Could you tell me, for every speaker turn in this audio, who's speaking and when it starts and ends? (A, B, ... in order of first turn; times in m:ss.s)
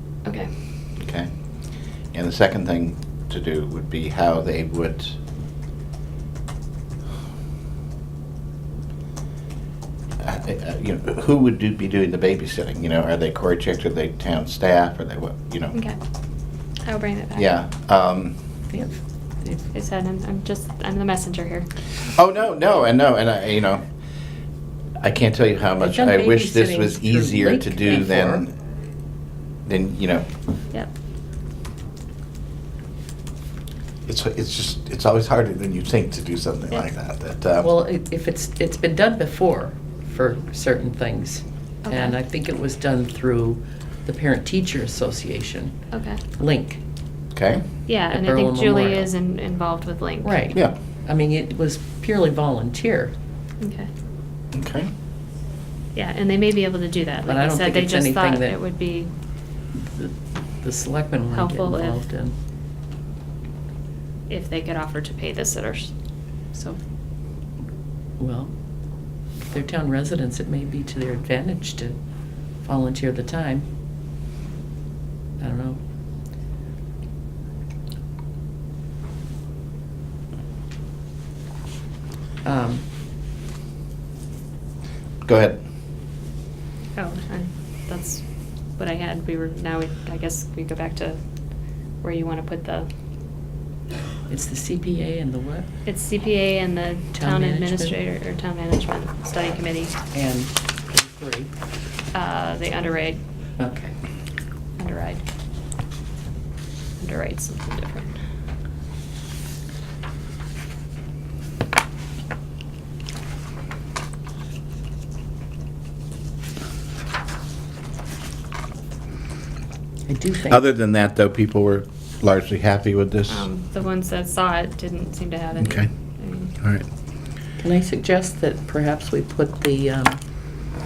0:01.0-0:01.3 A
0:02.1-0:05.2 A
0:10.2-0:15.8 A
0:16.8-0:17.5 B
0:17.4-0:18.3 A
0:18.7-0:19.7 C
0:19.7-0:21.7 B
0:22.1-0:23.8 A
0:25.0-0:28.5 A
0:25.8-0:28.4 C
0:29.6-0:30.2 A
0:34.1-0:37.7 A
0:37.6-0:45.7 C
0:41.8-0:42.2 B
0:45.9-0:46.2 B
0:46.4-0:46.8 C
0:47.3-0:47.6 A
0:47.9-0:50.4 B
0:48.1-0:49.1 C
0:50.2-0:53.1 C
0:53.6-0:53.9 B
0:54.5-0:54.9 A
0:55.9-0:59.1 B
0:57.2-0:58.6 C
0:59.7-1:02.3 C
1:01.3-1:02.0 B
1:04.3-1:05.9 B
1:06.5-1:06.8 B
1:08.2-1:08.5 C
1:09.5-1:12.0 C
1:12.6-1:13.6 C
1:15.4-1:15.8 C
1:22.4-1:22.8 C
1:25.2-1:25.6 A
1:27.0-1:28.2 B
1:28.8-1:31.2 B
1:32.0-1:32.9 B
1:34.3-1:35.7 C
1:35.8-1:40.0 B
1:37.2-1:38.0 C
1:40.1-1:41.5 C
1:42.1-1:43.2 B
1:43.6-1:43.9 C
1:44.8-1:45.2 B
1:47.0-1:48.2 B
2:00.1-2:00.6 C
2:00.5-2:03.5 A
2:03.3-2:06.5 B
2:05.6-2:05.9 A
2:07.6-2:10.2 C